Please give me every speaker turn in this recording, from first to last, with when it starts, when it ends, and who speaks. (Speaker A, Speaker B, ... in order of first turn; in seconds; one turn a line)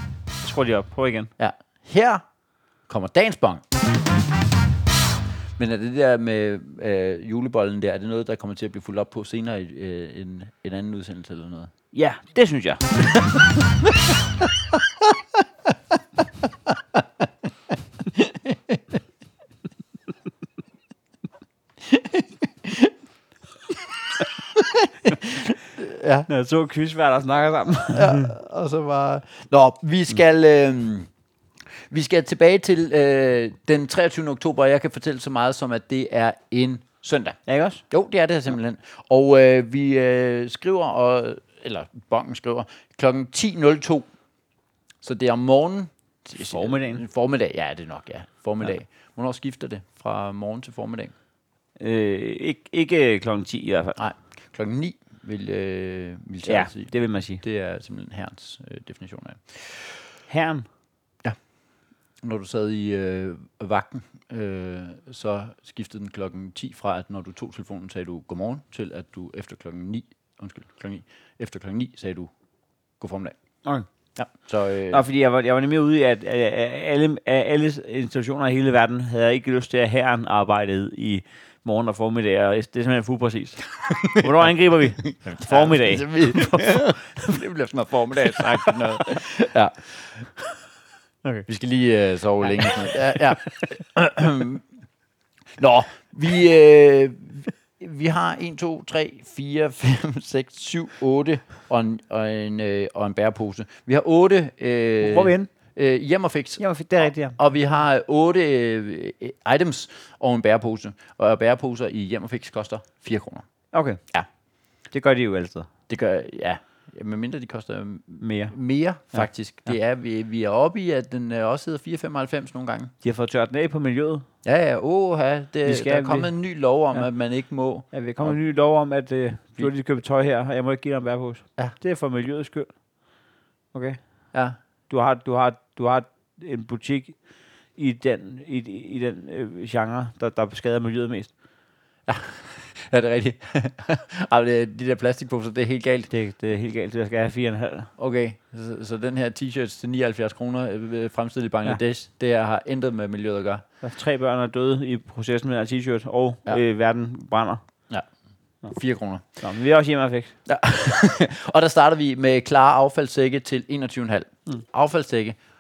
Speaker A: 0.4-1.3
Speaker B: 1.4-2.2
Speaker B: 2.9-3.6
Speaker B: 5.6-11.7
Speaker A: 11.9-13.5
Speaker B: 14.4-15.2
Speaker B: 16.7-17.2
Speaker B: 18.1-19.0
Speaker B: 21.8-22.9
Speaker B: 23.7-26.3
Speaker A: 26.3-28.3
Speaker B: 27.9-31.1
Speaker B: 31.9-37.4
Speaker A: 37.5-37.8
Speaker B: 37.9-44.1
Speaker B: 45.0-51.1
Speaker A: 46.4-47.0
Speaker A: 51.8-54.0
Speaker B: 54.0-60.0
Speaker A: 56.4-57.4
Speaker A: 60.3-60.7
Speaker B: 62.2-72.3
Speaker B: 73.0-73.4
Speaker B: 74.2-75.0
Speaker A: 74.9-86.8
Speaker B: 83.9-90.4
Speaker A: 88.3-88.8
Speaker B: 91.5-94.6
Speaker B: 95.6-106.6
Speaker A: 105.0-105.5
Speaker A: 106.6-107.4
Speaker B: 107.3-113.5
Speaker A: 113.7-114.0
Speaker A: 114.9-115.7
Speaker B: 115.9-122.9
Speaker A: 118.2-118.6
Speaker A: 119.1-119.7
Speaker A: 123.0-124.3
Speaker B: 124.4-128.4
Speaker A: 125.7-126.4
Speaker A: 127.9-132.8
Speaker A: 133.7-134.0
Speaker A: 134.9-137.2
Speaker A: 137.8-141.3
Speaker B: 142.1-146.1
Speaker A: 146.1-147.9
Speaker B: 148.0-153.6
Speaker A: 153.8-157.6
Speaker B: 158.7-159.2
Speaker A: 159.4-160.3
Speaker B: 160.5-165.4